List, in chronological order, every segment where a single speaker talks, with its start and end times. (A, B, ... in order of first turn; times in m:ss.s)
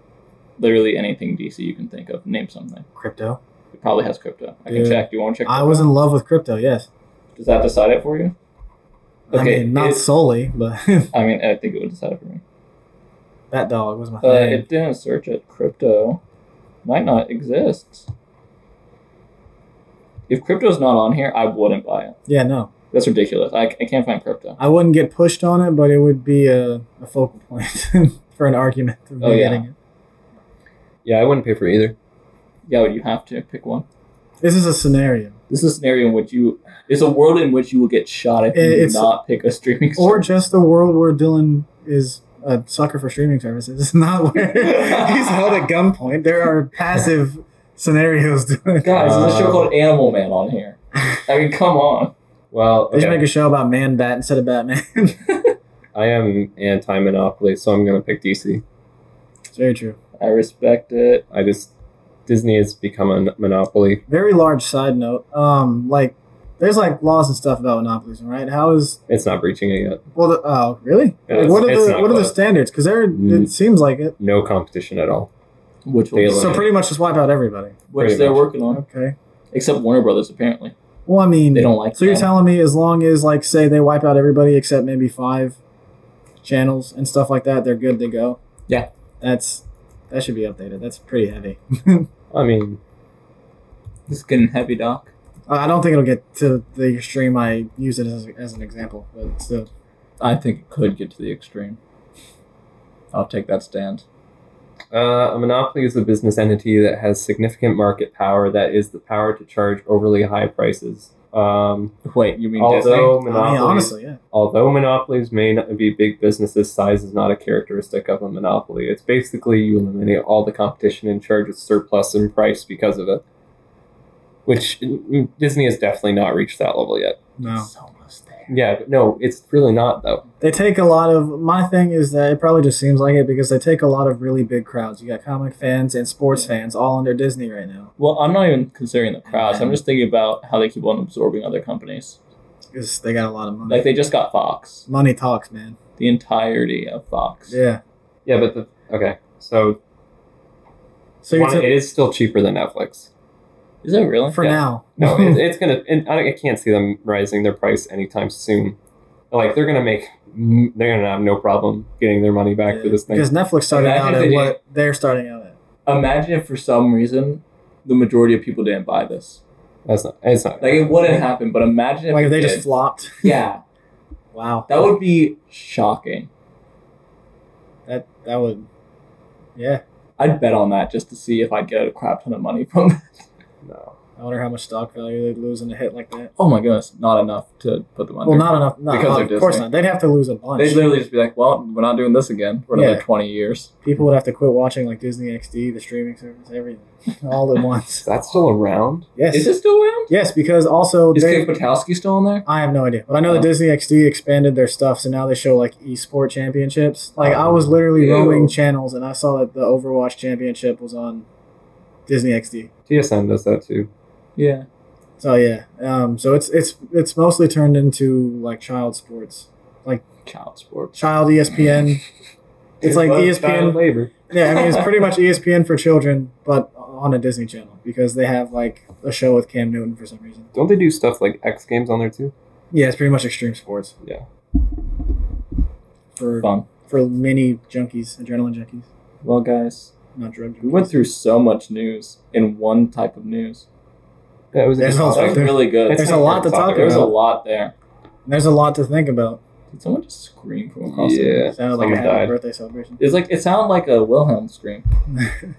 0:00.6-0:02.8 A
0:03.0-0:03.4 B
0:03.7-0:05.9 A
0:04.7-0:06.9 B
0:07.4-0:08.3 A
0:09.3-0:11.1 B
0:09.3-0:10.0 A
0:11.1-0:12.4 A
0:13.5-0:14.7 B
0:14.2-0:16.2 A
0:16.8-0:18.1 A
0:20.3-0:22.2 A
0:22.3-0:22.7 B
0:22.9-0:24.6 A
0:24.6-0:29.7 B
0:29.2-0:29.7 A
0:31.0-0:32.0 C
0:32.7-0:33.8 A
0:34.4-0:35.3 B
0:35.5-0:40.3 A
0:38.5-0:39.1 B
0:40.0-0:49.5 B
0:44.6-0:45.6 A
0:48.8-0:52.1 A
0:48.9-0:49.7 C
0:52.5-0:53.2 C
0:52.9-0:55.2 B
0:55.9-0:58.6 C
0:59.5-1:00.0 B
1:00.2-1:01.2 A
1:01.3-1:01.7 C
1:02.3-1:04.0 C
1:04.1-1:09.0 B
1:09.1-1:10.0 C
1:10.2-1:14.2 B
1:11.3-1:12.4 C
1:13.1-1:13.5 C
1:14.2-1:15.3 C
1:15.8-1:16.6 A
1:16.1-1:16.7 C
1:16.2-1:17.8 B
1:17.9-1:18.8 A
1:18.0-1:18.5 C
1:18.7-1:19.2 B
1:19.5-1:20.7 A
1:21.1-1:25.6 B
1:21.5-1:22.3 A
1:26.4-1:28.4 B
1:29.2-1:32.1 B
1:32.3-1:32.8 C
1:34.1-1:35.1 A
1:35.5-1:39.7 B
1:40.2-1:41.8 A
1:43.1-1:44.0 A
1:44.9-1:52.0 C
1:52.0-1:53.2 A
1:52.6-2:03.2 C
1:53.2-1:54.2 B
2:04.5-2:07.2 C
2:07.4-2:07.7 B
2:07.5-2:08.6 A
2:08.5-2:10.3 C
2:10.4-2:17.9 B
2:18.0-2:22.2 A
2:19.3-2:19.8 B
2:22.7-2:23.9 B
2:23.7-2:24.9 A
2:24.9-2:25.8 B
2:26.0-2:27.6 A
2:27.5-2:27.8 B
2:28.3-2:29.8 C
2:31.2-2:31.7 B
2:31.3-2:33.1 C
2:33.8-2:34.6 A
2:34.3-2:35.4 B
2:35.0-2:38.8 C
2:39.3-2:43.3 C
2:42.7-2:45.6 B
2:43.7-2:44.6 A
2:45.9-2:49.4 A
2:49.9-2:50.9 C
2:50.6-2:52.6 A
2:52.1-2:53.3 B
2:53.2-2:53.6 A
2:54.3-2:54.7 B
2:54.7-2:56.3 A
2:57.9-2:58.7 B
2:59.6-2:59.8 B
3:00.2-3:03.1 A
3:03.6-3:03.9 C
3:04.2-3:06.3 B
3:06.4-3:09.1 A
3:08.3-3:10.9 B
3:08.9-3:09.7 C
3:10.6-3:13.7 A
3:12.7-3:13.0 B
3:13.8-3:18.1 B
3:18.0-3:19.1 C
3:19.2-3:19.5 B
3:19.3-3:20.1 A
3:20.1-3:21.5 B
3:21.1-3:22.5 A
3:22.5-3:31.2 B
3:27.2-3:27.8 C
3:28.0-3:28.5 A
3:32.1-3:32.7 B
3:32.9-3:33.9 C
3:34.4-3:34.7 A
3:35.2-3:40.0 B
3:40.2-3:41.0 A
3:40.9-3:42.0 B
3:42.8-3:44.1 C
3:42.8-3:50.5 B
3:44.4-3:44.8 A
3:50.5-3:52.3 C
3:52.7-3:53.9 B
3:56.2-3:58.9 B
3:56.4-3:56.7 A
3:59.2-3:59.9 A
4:00.2-4:01.0 B
4:00.6-4:03.7 A
4:04.5-4:07.1 C
4:04.8-4:07.1 B
4:05.1-4:07.7 A
4:08.3-4:09.4 B
4:09.7-4:11.5 A
4:10.8-4:12.3 C
4:11.5-4:13.0 B
4:13.0-4:14.9 A